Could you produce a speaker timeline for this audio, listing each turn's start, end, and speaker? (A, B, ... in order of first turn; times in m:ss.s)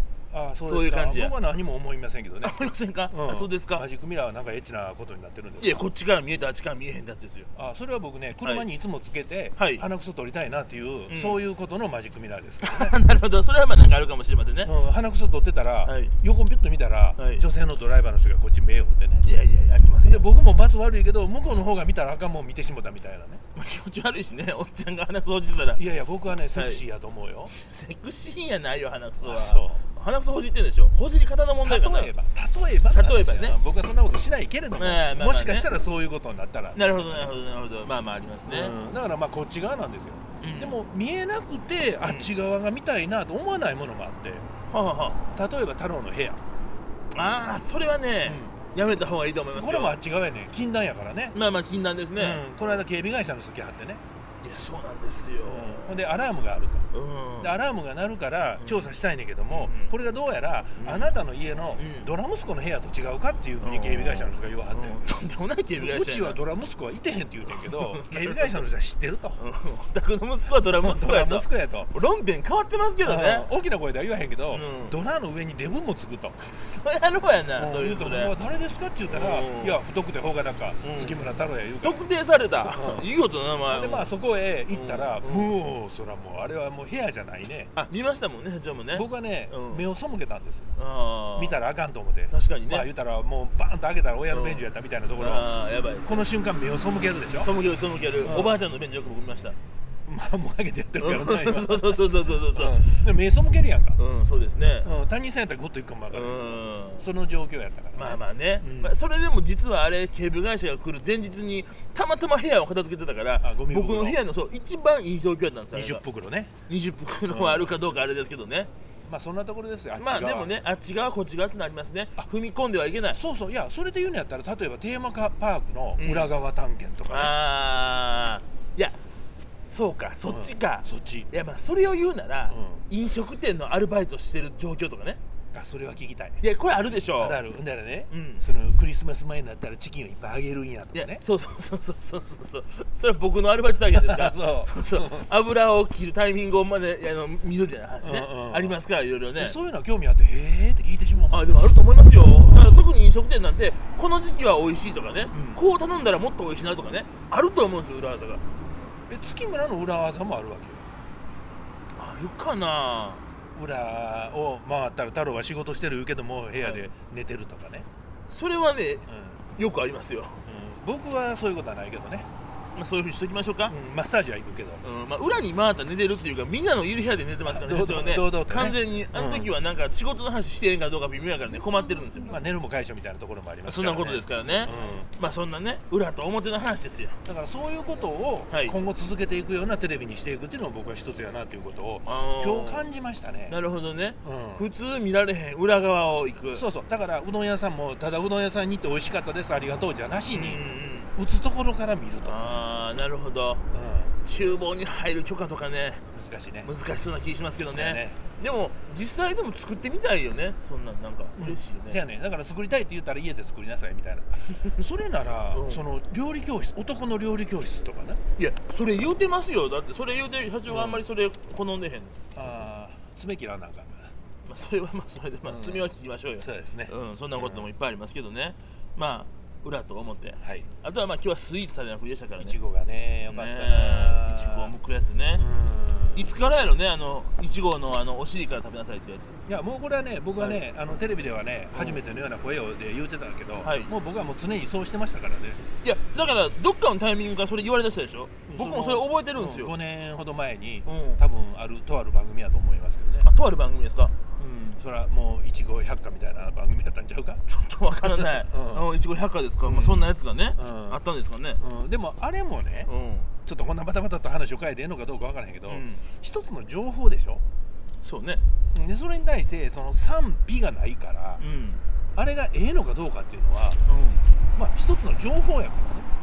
0:00.3-0:02.6 A
0:00.6-0:01.4 B
0:02.4-0:03.8 B
0:03.1-0:05.8 A
0:05.6-0:07.5 B
0:07.5-0:13.0 A
0:09.6-0:09.8 B
0:11.1-0:11.4 B
0:12.6-0:14.7 B
0:14.6-0:19.3 A
0:15.8-0:16.1 B
0:17.2-0:17.4 B
0:19.2-0:20.6 B
0:20.0-0:23.4 A
0:23.5-0:25.8 B
0:25.8-0:27.5 A
0:26.5-0:26.8 B
0:27.5-0:32.1 B
0:29.2-0:29.8 A
0:31.6-0:37.3 A
0:32.9-0:33.6 B
0:34.7-0:35.7 B
0:36.7-0:38.7 B
0:38.5-0:44.4 A
0:40.4-0:40.8 B
0:42.0-0:42.3 B
0:44.7-0:45.2 B
0:45.3-0:46.4 A
0:47.1-0:50.0 B
0:48.2-0:48.6 A
0:49.5-0:51.4 A
0:51.3-0:52.8 B
0:52.2-0:54.0 A
0:54.4-0:56.0 B
0:55.4-0:56.9 A
0:56.9-0:57.5 B
0:57.4-1:05.0 A
0:58.6-0:58.9 B
0:59.5-0:59.9 B
1:00.8-1:01.1 B
1:01.8-1:02.1 B
1:03.6-1:06.4 B
1:05.7-1:09.4 A
1:07.5-1:08.6 B
1:09.4-1:13.5 B
1:10.7-1:11.9 A
1:13.0-1:16.4 A
1:14.5-1:15.0 B
1:16.4-1:18.3 B
1:17.6-1:22.0 A
1:19.0-1:19.8 B
1:20.8-1:21.2 B
1:21.8-1:24.1 B
1:22.6-1:23.1 A
1:23.7-1:27.7 A
1:24.7-1:25.5 B
1:27.7-1:29.8 B
1:28.9-1:30.7 A
1:30.8-1:31.6 B
1:31.4-1:35.5 A
1:32.3-1:32.9 B
1:34.3-1:34.6 B
1:35.2-1:36.3 B
1:36.0-1:37.5 A
1:37.4-1:39.6 B
1:38.2-1:38.6 A
1:40.0-1:44.0 A
1:41.0-1:43.1 B
1:44.0-1:44.9 B
1:44.8-1:49.0 A
1:46.1-1:47.0 B
1:47.9-1:56.0 B
1:53.4-1:54.2 A
1:55.7-1:56.5 A
1:56.7-1:58.7 B
1:57.3-1:57.9 A
1:59.0-2:00.5 A
2:00.0-2:03.2 B
2:03.1-2:07.4 A
2:06.0-2:06.3 B
2:07.1-2:09.0 B
2:09.6-2:15.2 B
2:10.2-2:11.3 A
2:12.5-2:12.9 A
2:15.5-2:16.4 A
2:16.4-2:17.4 B
2:17.2-2:21.2 A
2:18.1-2:18.4 B
2:20.9-2:29.6 B
2:23.9-2:25.3 A
2:28.0-2:28.8 A
2:29.4-2:31.5 A
2:31.3-2:38.4 B
2:32.1-2:32.9 A
2:35.3-2:35.6 A
2:39.1-2:40.9 A
2:42.0-2:43.2 B
2:43.5-2:47.9 A
2:46.5-2:46.9 B
2:48.3-2:50.4 B
2:49.1-2:49.4 A
2:50.4-2:52.3 A
2:52.7-2:53.7 B
2:53.7-2:54.8 A
2:54.8-3:02.4 B
2:57.4-2:59.5 A
3:02.2-3:05.1 A
3:03.6-3:07.2 B
3:07.2-3:13.6 A
3:12.0-3:12.9 B
3:13.5-3:16.6 B
3:14.2-3:14.7 A
3:16.5-3:20.6 A
3:20.3-3:21.1 B
3:21.1-3:22.6 A
3:22.2-3:23.6 B
3:23.7-3:24.1 A
3:24.2-3:26.0 B
3:26.1-3:26.7 A
3:26.6-3:32.0 B
3:27.7-3:28.2 A
3:31.4-3:38.2 A
3:35.5-3:35.8 B
3:38.4-3:42.2 B
3:40.7-3:41.0 A
3:42.3-3:44.1 A
3:44.4-3:52.6 B
3:45.4-3:47.7 A
3:50.4-3:50.7 A
3:52.4-3:54.7 A
3:53.3-3:55.4 B
3:55.3-3:56.5 A
3:56.1-3:59.4 B
3:59.4-4:05.6 A
4:00.4-4:00.7 B
4:01.7-4:02.0 B
4:03.6-4:03.9 B
4:05.8-4:09.8 B
4:08.4-4:13.3 A
4:10.8-4:11.2 B
4:13.2-4:14.1 B
4:14.4-4:17.4 A
4:17.5-4:21.6 B
4:18.0-4:18.9 A
4:19.6-4:21.0 A
4:21.6-4:22.9 A
4:22.8-4:23.3 B
4:23.4-4:27.4 A
4:25.7-4:26.0 B
4:28.0-4:28.4 B
4:28.7-4:31.4 A
4:31.4-4:31.8 B
4:32.1-4:33.8 A
4:33.8-4:34.3 B
4:34.5-4:36.1 A